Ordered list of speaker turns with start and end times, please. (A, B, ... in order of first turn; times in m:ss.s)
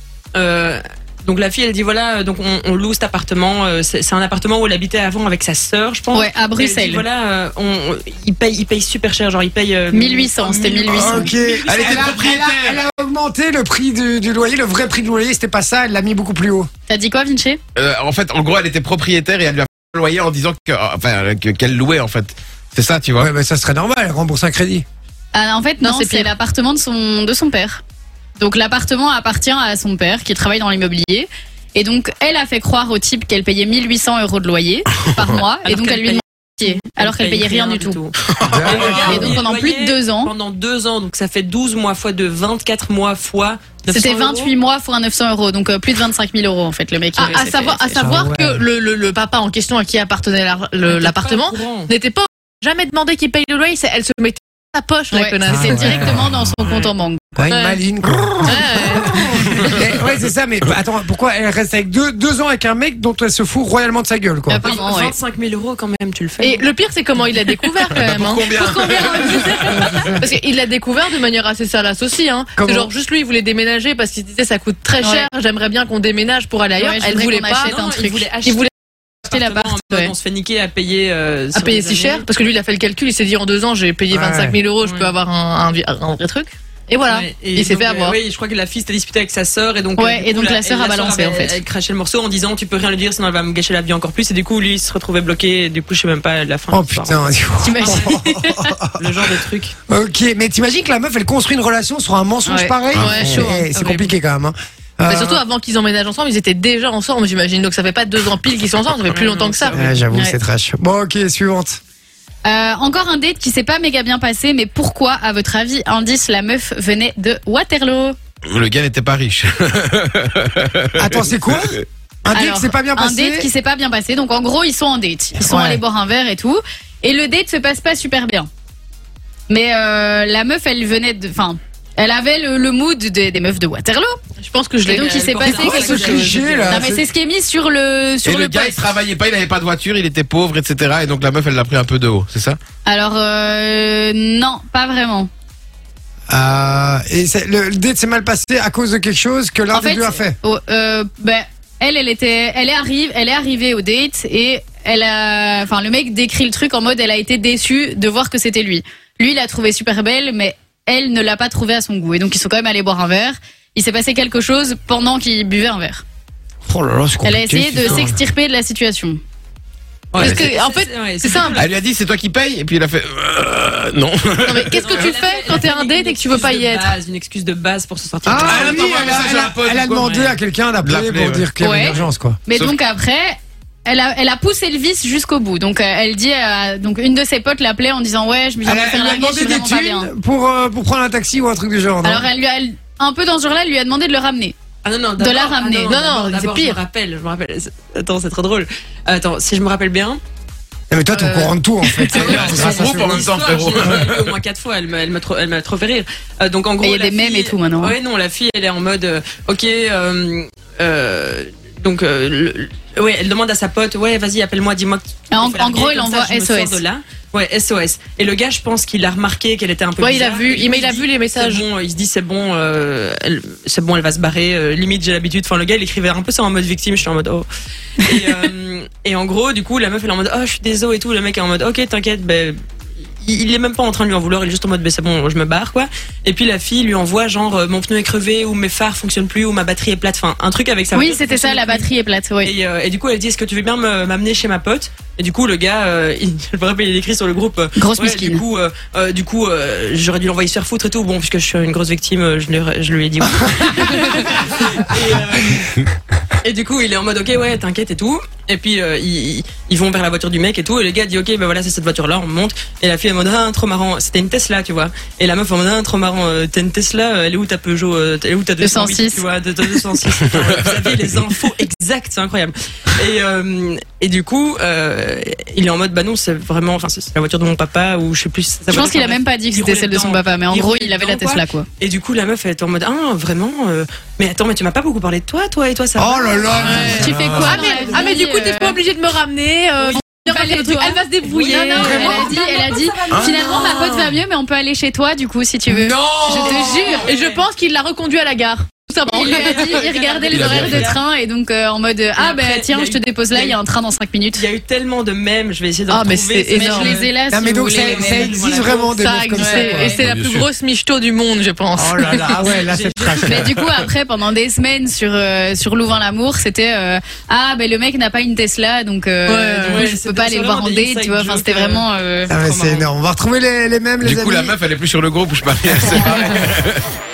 0:00.3-0:12.2 A
0:06.1-0:07.0 B
0:09.9-0:11.3 B
0:10.9-0:16.7 C
0:11.6-0:12.8 D
0:16.9-0:17.6 B
0:17.7-0:23.3 D
0:23.2-0:24.8 C
0:25.3-0:27.8 B
0:25.8-0:26.3 E
0:28.4-0:38.0 B
0:35.6-0:44.5 A
0:38.4-0:39.1 D
0:38.4-0:39.4 C
0:39.0-0:40.3 B
0:43.9-0:48.0 B
0:47.1-0:56.3 E
0:47.2-0:47.4 A
0:47.9-0:48.6 C
0:50.8-0:51.9 A
0:55.1-0:57.4 B
0:55.5-0:56.3 C
0:57.4-1:04.7 C
0:57.5-0:57.8 E
0:58.4-0:59.4 E
0:59.2-0:59.8 D
1:04.5-1:05.1 B
1:04.6-1:06.6 A
1:06.4-1:17.8 E
1:07.9-1:10.0 D
1:09.7-1:10.3 C
1:12.6-1:12.9 C
1:15.0-1:15.3 B
1:16.7-1:18.3 B
1:17.6-1:18.7 A
1:18.3-1:18.7 E
1:19.2-1:22.2 A
1:19.3-1:20.1 B
1:21.5-1:28.2 E
1:24.1-1:24.6 C
1:24.8-1:25.1 A
1:27.1-1:37.2 A
1:30.0-1:31.6 B
1:36.7-1:38.9 C
1:37.6-1:38.7 B
1:37.8-1:38.2 A
1:39.0-1:39.7 A
1:39.9-1:45.4 C
1:42.4-1:42.8 B
1:42.9-1:43.4 D
1:43.0-1:43.5 E
1:43.3-1:43.7 B
1:43.7-1:44.1 A
1:45.1-1:49.8 E
1:49.1-1:49.9 A
1:49.7-1:51.8 C
1:50.1-1:50.4 B
1:52.4-1:58.2 B
1:58.5-2:01.6 D
2:01.0-2:03.5 C
2:02.3-2:08.5 B
2:05.4-2:05.8 C
2:09.5-2:14.2 B
2:14.4-2:15.4 E
2:14.8-2:16.1 B
2:15.1-2:16.9 A
2:15.4-2:17.0 C
2:16.0-2:16.5 E
2:16.7-2:18.9 B
2:18.2-2:22.6 D
2:22.8-2:25.3 B
2:26.3-2:30.4 C
2:29.7-2:46.0 B
2:46.6-2:48.2 C
2:47.2-2:49.2 B
2:47.8-2:48.1 A
2:50.1-2:51.7 A
2:50.1-2:51.6 E
2:51.5-2:55.0 D
2:54.4-2:57.0 E
2:54.7-2:59.2 A
2:58.2-3:02.4 C
2:58.3-3:01.5 D
3:01.6-3:10.1 B
3:08.6-3:12.3 C
3:12.0-3:14.5 B
3:14.8-3:20.2 A
3:15.2-3:15.9 B
3:15.9-3:16.8 E
3:20.9-3:23.3 C
3:21.1-3:22.3 B
3:22.1-3:24.4 D
3:22.1-3:47.5 A
3:26.8-3:27.9 B
3:35.3-3:36.8 B
3:40.0-3:41.6 E
3:48.0-3:52.6 A
3:53.2-4:01.9 A
4:00.9-4:02.5 B
4:02.4-4:15.8 A
4:07.8-4:08.4 B
4:16.4-4:47.1 A
4:28.6-4:29.2 B
4:38.7-4:41.7 B
4:46.0-4:47.9 C
4:46.4-4:47.5 D
4:46.6-4:52.6 E
4:46.9-4:48.8 B
4:50.0-4:57.1 B
4:51.2-4:53.9 A
4:51.8-4:52.1 C
4:53.1-4:53.4 D
4:53.3-4:54.1 E
4:55.7-4:57.0 C
4:56.2-4:59.9 E
4:56.6-4:57.4 A
4:59.0-5:04.4 B
4:59.1-5:01.0 A
5:00.3-5:00.9 D
5:02.2-5:03.6 A
5:04.3-5:07.1 A
5:05.9-5:07.0 E
5:06.5-5:08.4 B
5:07.3-5:10.0 C
5:07.7-5:09.0 A
5:08.9-5:12.5 E
5:09.3-5:10.0 B
5:10.0-5:10.5 D
5:11.7-5:13.5 C
5:12.1-5:13.4 A
5:13.2-5:22.3 B
5:13.3-5:13.8 D
5:19.2-5:20.0 E
5:19.6-5:22.9 A
5:22.3-5:24.5 C
5:24.0-5:26.8 D